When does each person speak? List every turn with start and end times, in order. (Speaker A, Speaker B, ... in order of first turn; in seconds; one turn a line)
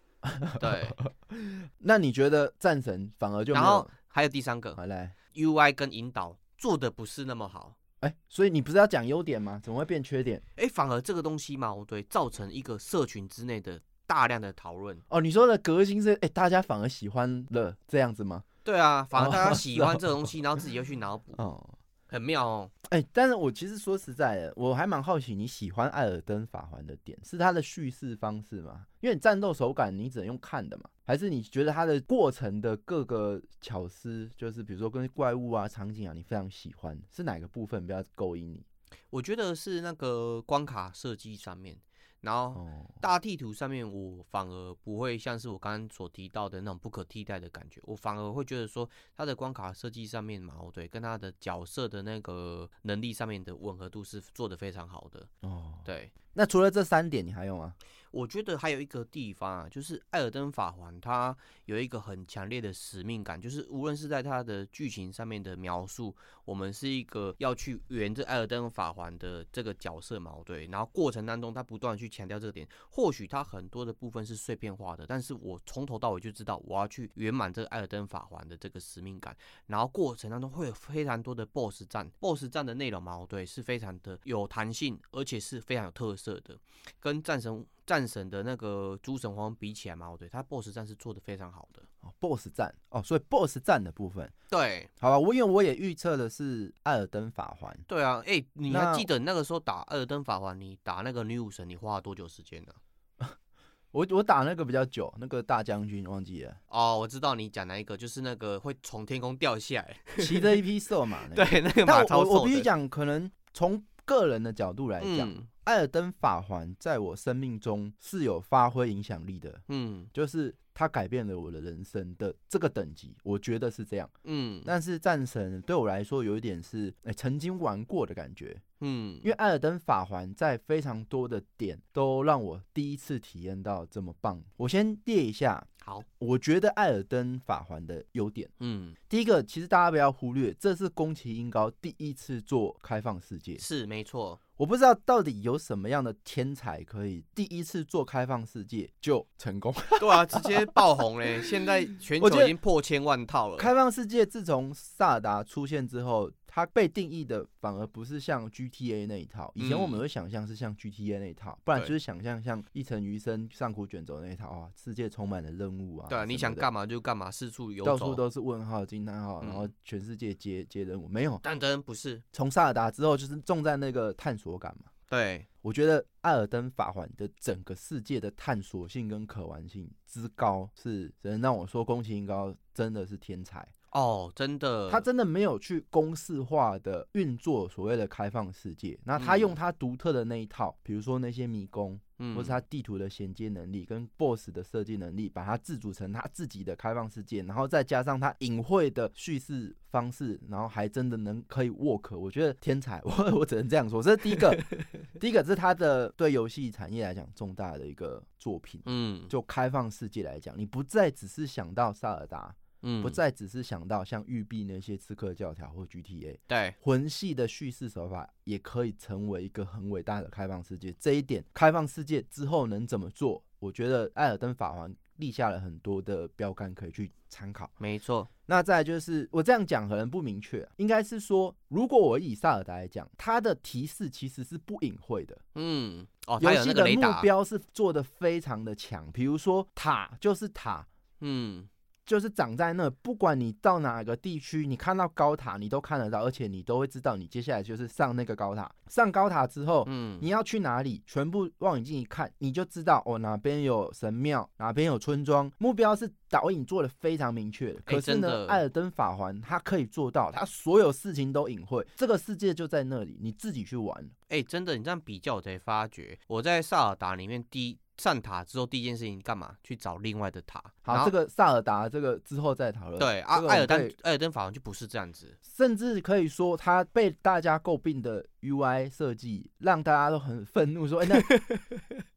Speaker A: 0.2-3.9
Speaker B: 0.5-1.0
Speaker B: 3.5-4.8
Speaker A: 4.8-5.2
Speaker B: 5.3-7.8
Speaker A: 8.0-10.4
Speaker B: 10.6-15.0
Speaker A: 15.1-18.5
Speaker B: 18.6-21.4
Speaker A: 19.2-20.3
Speaker A: 21.4-21.8
Speaker B: 22.1-22.7
Speaker A: 22.9-38.6
Speaker B: 39.1-55.3
Speaker A: 42.6-43.0
Speaker A: 55.4-57.8
Speaker B: 55.9-56.1
Speaker B: 58.1-91.9
Speaker A: 92.0-94.3
Speaker B: 94.5-94.9
Speaker A: 95.0-97.9
Speaker B: 97.9-102.8
Speaker A: 98.7-99.1
Speaker A: 103.9-106.6
Speaker B: 106.7-110.6
Speaker A: 110.2-124.1
Speaker B: 111.3-112.7
Speaker B: 115.0-115.5
Speaker B: 119.7-120.1
Speaker B: 124.2-124.7
Speaker A: 124.7-128.6
Speaker B: 128.8-129.3
Speaker A: 129.2-138.5
Speaker B: 138.6-139.0
Speaker A: 139.1-143.6
Speaker B: 143.6-144.4
Speaker A: 144.6-150.8
Speaker B: 150.0-153.7
Speaker A: 152.2-152.6
Speaker A: 153.6-166.7
Speaker B: 159.6-160.0
Speaker B: 166.1-168.2
Speaker A: 167.8-171.4
Speaker B: 169.4-169.7
Speaker B: 171.4-172.2
Speaker A: 172.3-174.9
Speaker B: 175.1-175.5
Speaker A: 175.6-183.7
Speaker B: 183.9-185.1
Speaker A: 184.9-227.7
Speaker B: 189.2-189.6
Speaker B: 192.2-192.6
Speaker B: 204.6-204.9
Speaker B: 208.8-209.3
Speaker B: 212.8-213.2
Speaker B: 216.5-216.8
Speaker B: 227.8-228.3
Speaker A: 228.5-235.4
Speaker B: 235.6-237.3
Speaker A: 236.4-240.9
Speaker B: 241.2-241.7
Speaker A: 242.1-264.1
Speaker B: 249.9-250.3
Speaker B: 257.9-258.6
Speaker B: 264.3-271.1
Speaker A: 270.9-273.9
Speaker B: 273.0-275.4
Speaker A: 275.4-281.3
Speaker B: 281.1-281.8